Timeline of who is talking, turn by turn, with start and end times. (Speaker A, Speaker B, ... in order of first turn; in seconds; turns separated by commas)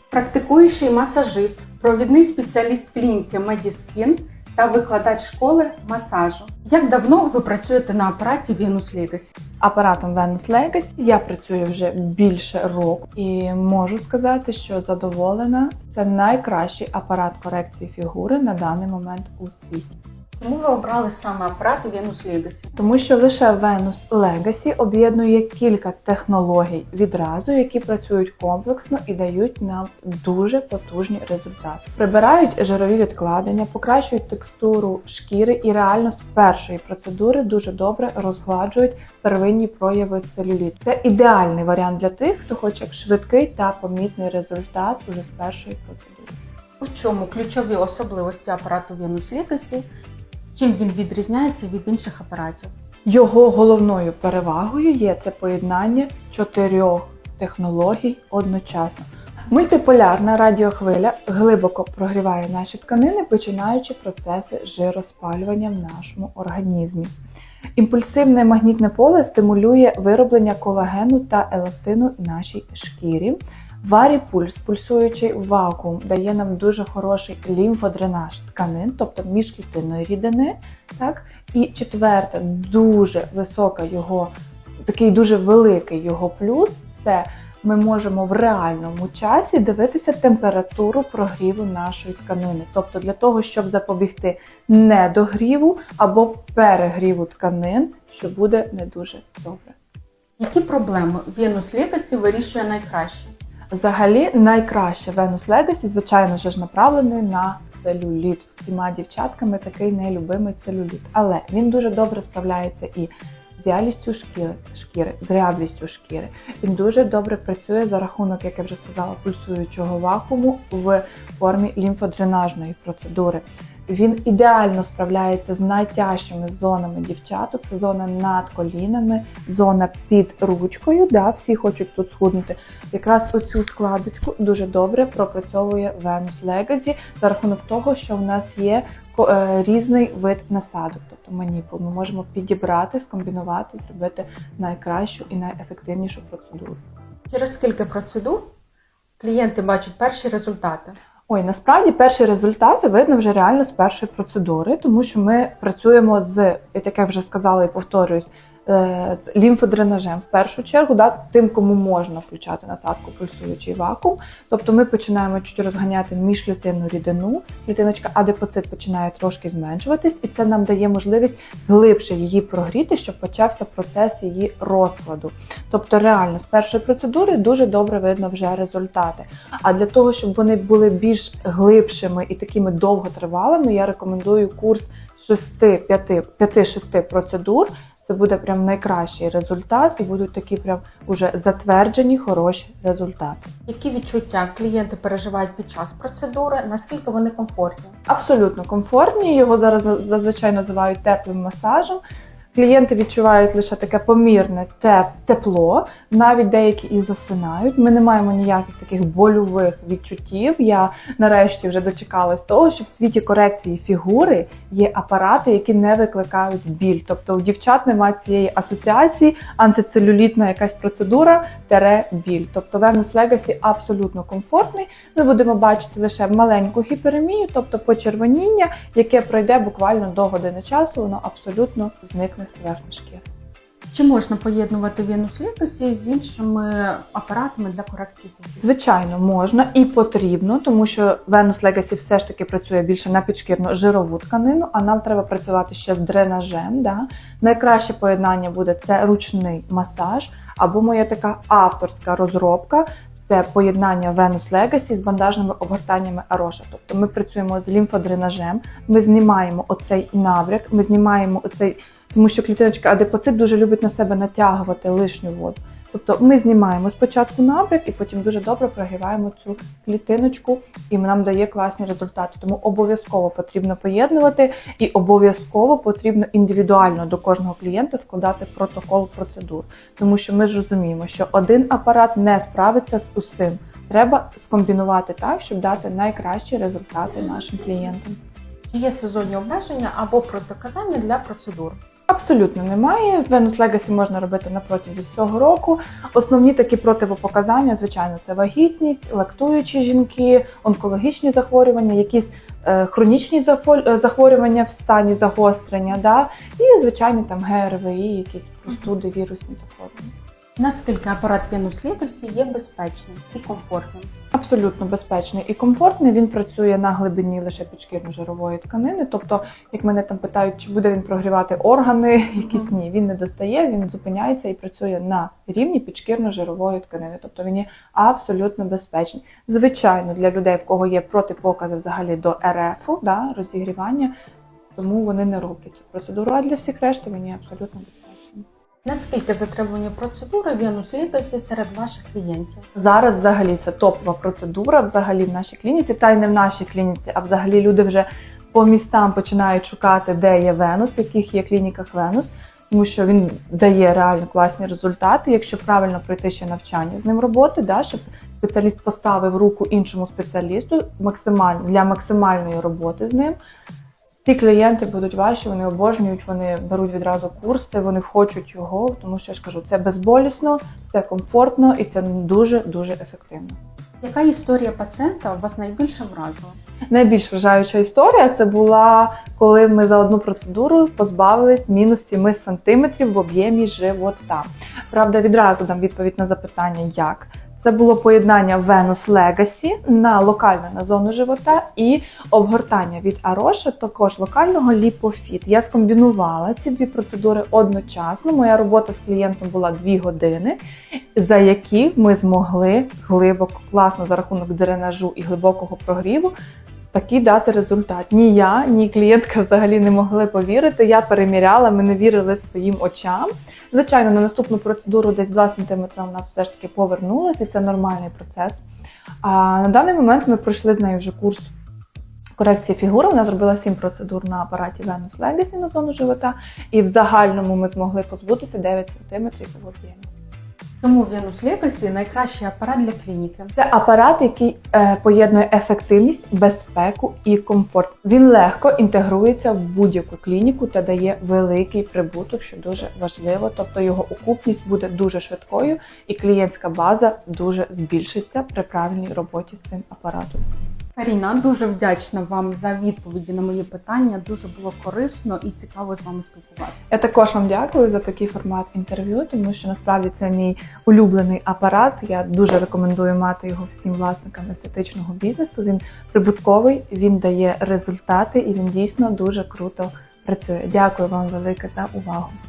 Speaker A: 0.1-9.3, Speaker B: 9.6-19.9, Speaker A: 20.4-22.8, Speaker B: 22.8-46.4, Speaker A: 46.8-49.9, Speaker A: 50.5-52.7, Speaker B: 53.0-67.1, Speaker B: 67.8-84.3, Speaker B: 84.9-99.8, Speaker A: 100.4-103.3, Speaker B: 103.7-146.8, Speaker A: 147.3-148.5, Speaker A: 149.2-151.0, Speaker B: 151.3-193.5, Speaker A: 193.7-197.9, Speaker B: 198.1-202.0, Speaker B: 202.5-233.2, Speaker A: 233.9-238.6, Speaker B: 238.6-288.2, Speaker A: 288.7-291.8, Speaker B: 292.1-310.1, Speaker A: 310.6-314.1, Speaker B: 314.3-334.1, Speaker B: 334.8-338.5, Speaker A: 338.9-342.7, Speaker B: 342.8-363.4, Speaker B: 364.2-373.6, Speaker A: 374.0-376.6, Speaker B: 376.9-400.6, Speaker B: 401.1-406.3, Speaker B: 406.9-418.7, Speaker B: 419.2-421.5, Speaker B: 422.4-430.1, Speaker A: 430.8-433.5, Speaker B: 433.6-450.4, Speaker A: 451.0-456.9, Speaker B: 456.9-472.4